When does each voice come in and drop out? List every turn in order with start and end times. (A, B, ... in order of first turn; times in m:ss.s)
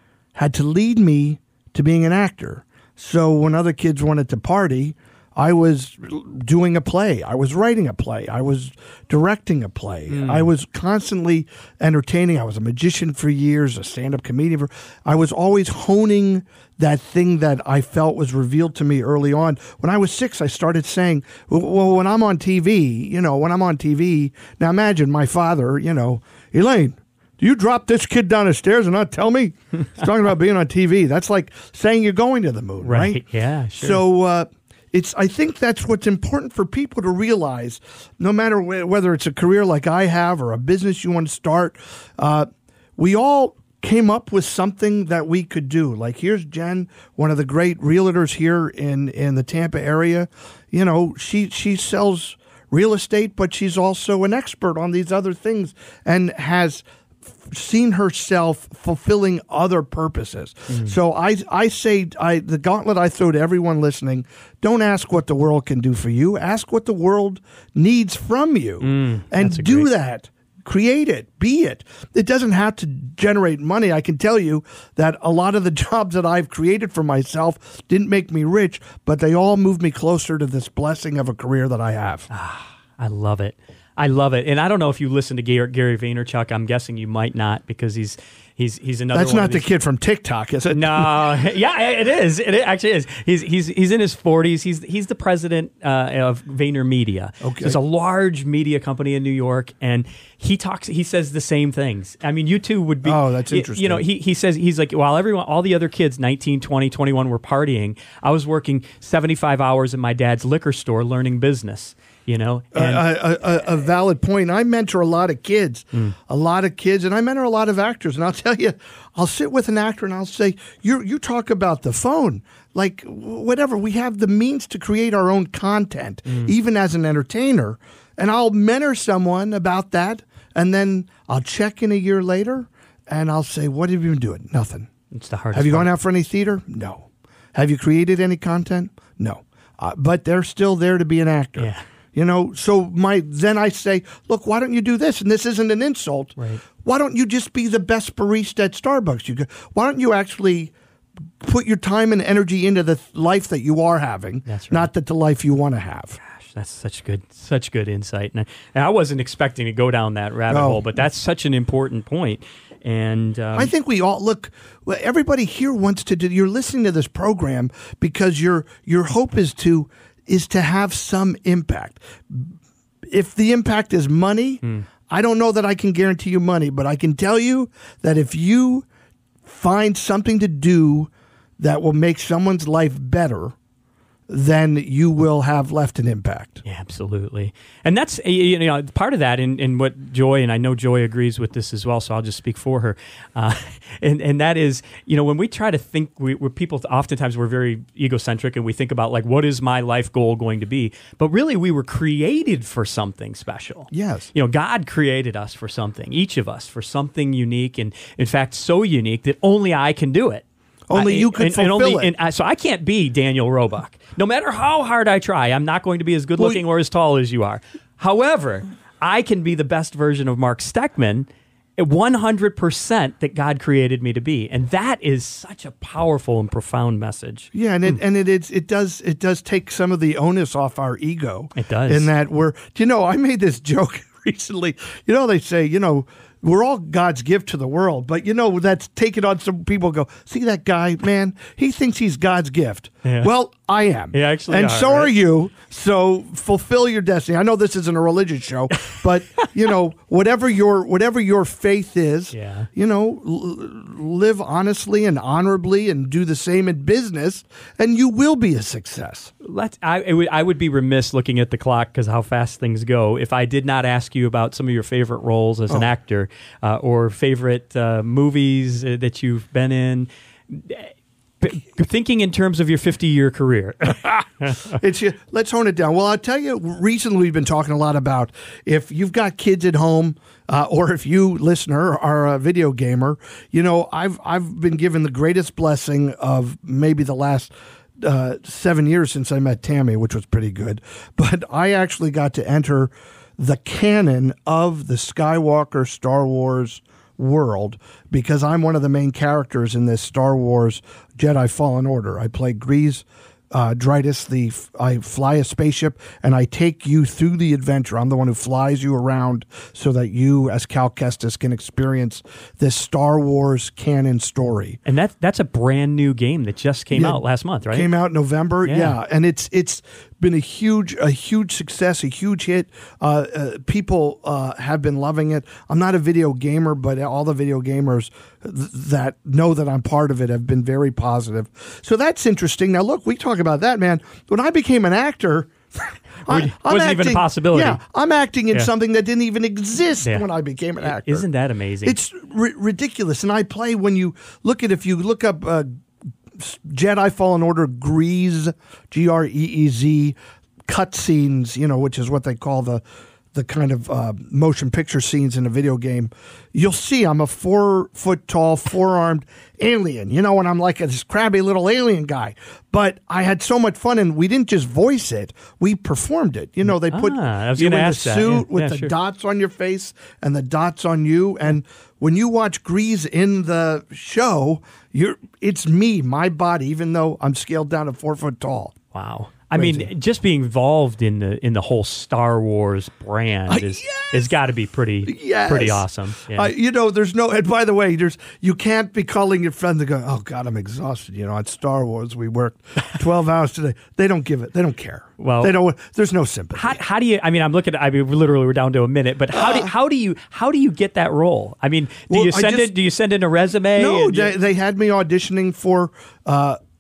0:00.4-0:33.2 A
0:10.1-0:10.5 B
0:32.8-0:34.0 B
0:33.8-1:22.3 A
1:00.7-1:01.0 B
1:08.8-1:09.9 B
1:22.3-1:29.7 B
1:29.1-1:31.2 A
1:30.7-1:53.2 B
1:37.4-1:37.8 A
1:43.0-1:44.0 A
1:52.7-2:14.9 A
2:06.3-2:06.5 B
2:15.1-2:15.9 B
2:15.5-2:30.7 A
2:21.6-2:21.8 B
2:26.4-2:26.6 B
2:31.4-2:36.2 A
2:34.5-2:34.9 B
2:36.3-2:43.7 B
2:40.5-2:40.9 A
2:43.5-2:52.6 A
2:53.1-2:58.9 A
2:59.4-3:03.6 A
3:04.3-3:06.6 A
3:06.6-3:48.0 B
3:23.9-3:24.3 A
3:30.9-3:32.1 A
3:47.5-4:19.3 A
3:51.6-3:52.1 B
4:03.0-4:03.3 B
4:04.1-4:05.1 B
4:12.3-4:12.7 B
4:19.4-4:34.8 B
4:34.7-5:14.8 A
5:14.9-5:17.9 B
5:16.9-5:41.3 A
5:18.6-5:19.0 B
5:36.3-5:37.8 B
5:40.8-5:42.0 B
5:41.8-5:45.7 A
5:46.3-5:50.2 A
5:50.7-6:18.8 A
6:06.7-6:08.9 B
6:18.9-6:26.5 B
6:19.5-6:19.9 A
6:23.5-6:24.3 A
6:25.0-6:36.8 A
6:35.2-6:35.6 B
6:36.6-6:44.3 B
6:39.3-6:39.7 A
6:42.1-6:42.7 A
6:43.8-6:46.6 A